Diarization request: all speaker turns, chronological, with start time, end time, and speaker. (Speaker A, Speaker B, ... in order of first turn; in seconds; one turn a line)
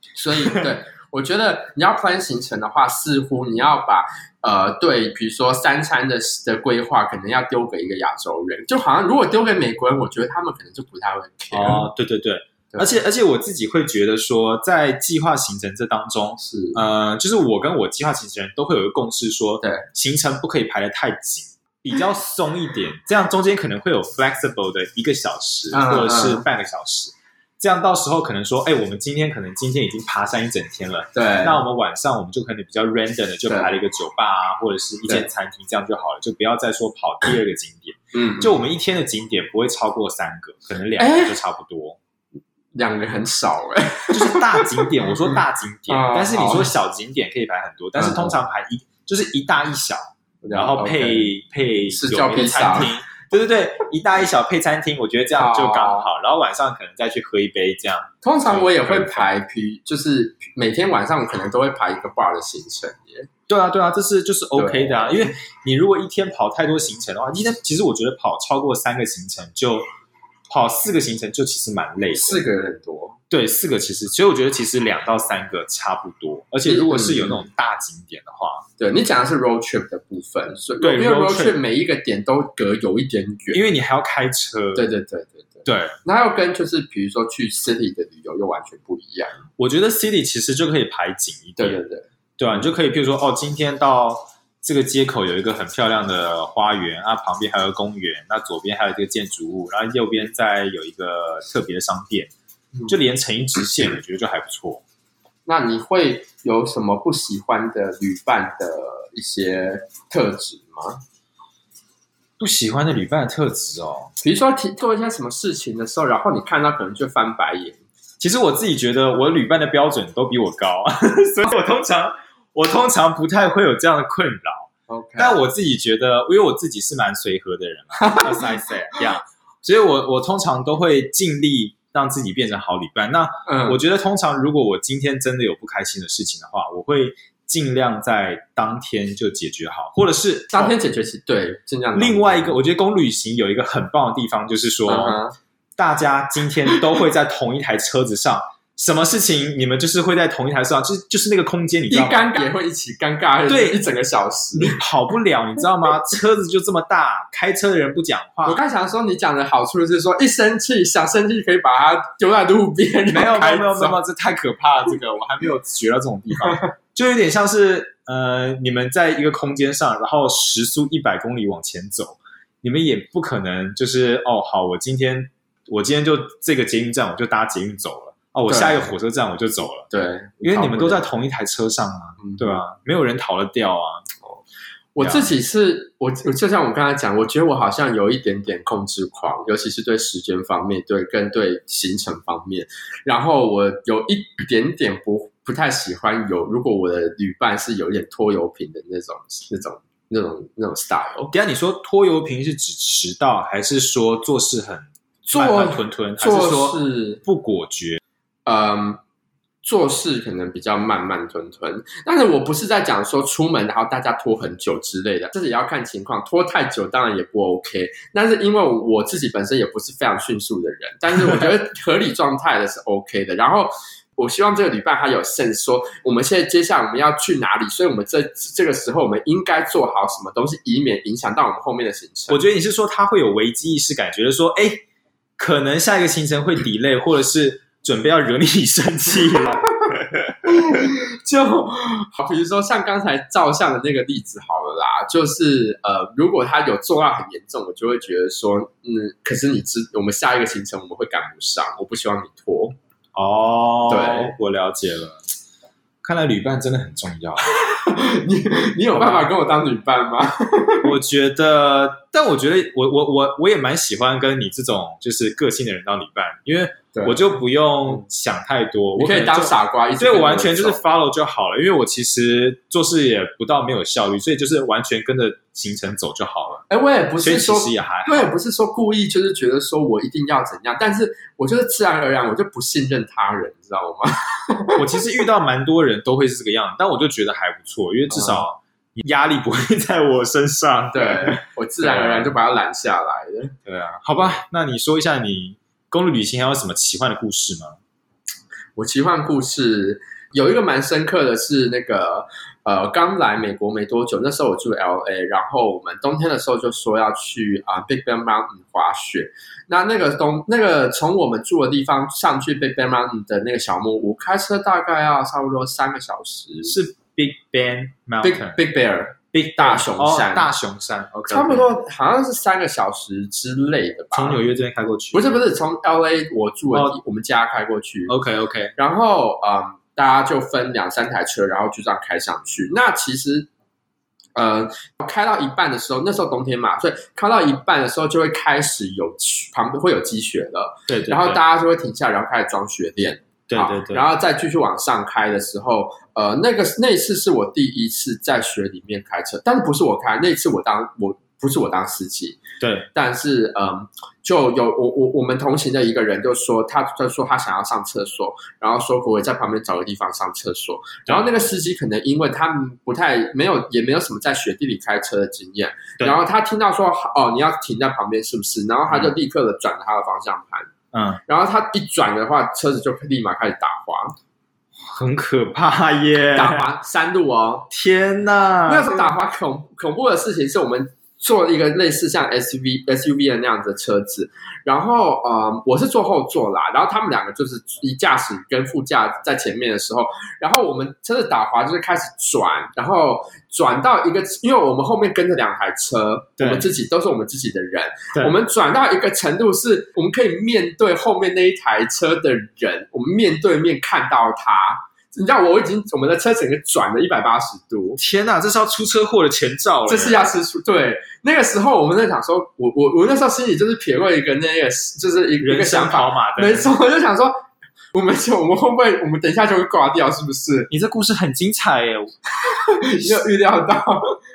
Speaker A: 0.2-11.9
Speaker B: 0.4-0.7
Speaker B: 11.5-42.0
Speaker A: 16.4-16.8
Speaker A: 25.7-26.4
Speaker A: 31.1-31.6
Speaker A: 33.5-33.7
Speaker A: 38.1-38.6
Speaker A: 41.0-41.4
Speaker A: 42.8-45.4
Speaker B: 44.1-59.3
Speaker A: 45.9-46.7
Speaker A: 48.0-48.4
Speaker A: 50.4-51.3
Speaker A: 51.9-52.9
Speaker A: 55.4-56.1
Speaker A: 58.2-63.3
Speaker B: 63.5-69.9
Speaker A: 64.6-65.3
Speaker B: 70.5-72.4
Speaker A: 72.1-73.2
Speaker B: 73.3-78.7
Speaker A: 76.7-77.4
Speaker A: 78.8-83.6
Speaker B: 80.8-81.6
Speaker B: 83.5-84.8
Speaker A: 84.8-89.4
Speaker B: 85.6-86.0
Speaker B: 89.6-91.8
Speaker A: 91.6-92.7
Speaker B: 92.4-102.3
Speaker B: 102.9-104.8
Speaker A: 105.5-111.0
Speaker B: 112.4-114.1
Speaker A: 114.2-117.8
Speaker B: 118.2-140.8
Speaker A: 124.9-125.4
Speaker A: 128.0-128.4
Speaker A: 133.4-133.8
Speaker A: 140.5-142.6
Speaker B: 141.9-145.2
Speaker A: 144.9-145.3
Speaker B: 145.8-152.2
Speaker A: 151.9-154.8
Speaker B: 153.5-153.8
Speaker B: 154.6-158.6
Speaker A: 158.4-164.0
Speaker B: 163.1-179.9
Speaker A: 178.5-178.9
Speaker A: 179.9-181.0
Speaker B: 180.4-184.1
Speaker A: 182.2-182.6
Speaker A: 184.9-201.3
Speaker B: 185.0-185.3
Speaker B: 201.3-208.0
Speaker A: 205.3-207.2
Speaker A: 208.4-209.0
Speaker A: 209.6-232.4
Speaker B: 232.3-234.8
Speaker B: 235.4-240.8
Speaker A: 240.4-252.8
Speaker B: 253.1-255.2
Speaker A: 253.9-254.3
Speaker B: 256.0-257.6
Speaker A: 257.8-260.9
Speaker B: 258.9-259.3
Speaker B: 260.8-276.6
Speaker A: 266.9-267.2
Speaker A: 269.0-270.8
Speaker A: 276.7-285.0
Speaker B: 277.2-278.3
Speaker B: 284.8-292.3
Speaker A: 288.1-288.5
Speaker A: 290.9-293.5
Speaker B: 293.6-297.8
Speaker A: 298.8-316.8
Speaker B: 316.6-318.6
Speaker A: 318.2-320.5
Speaker B: 319.3-321.7
Speaker A: 321.3-324.4
Speaker B: 324.1-325.4
Speaker A: 325.1-328.1
Speaker B: 326.7-327.0
Speaker B: 328.1-328.8
Speaker A: 328.8-333.5
Speaker A: 334.4-352.4
Speaker B: 340.9-341.4
Speaker B: 343.5-344.1
Speaker B: 352.6-352.9
Speaker A: 352.9-370.7
Speaker B: 370.9-371.2
Speaker A: 371.3-374.1
Speaker B: 374.8-376.6
Speaker A: 376.4-377.7
Speaker B: 377.7-379.1
Speaker A: 378.7-408.0
Speaker B: 396.4-396.7
Speaker B: 408.0-410.2
Speaker A: 409.9-417.4
Speaker B: 415.4-416.7
Speaker A: 417.9-420.7
Speaker B: 420.7-422.1
Speaker A: 422.4-424.2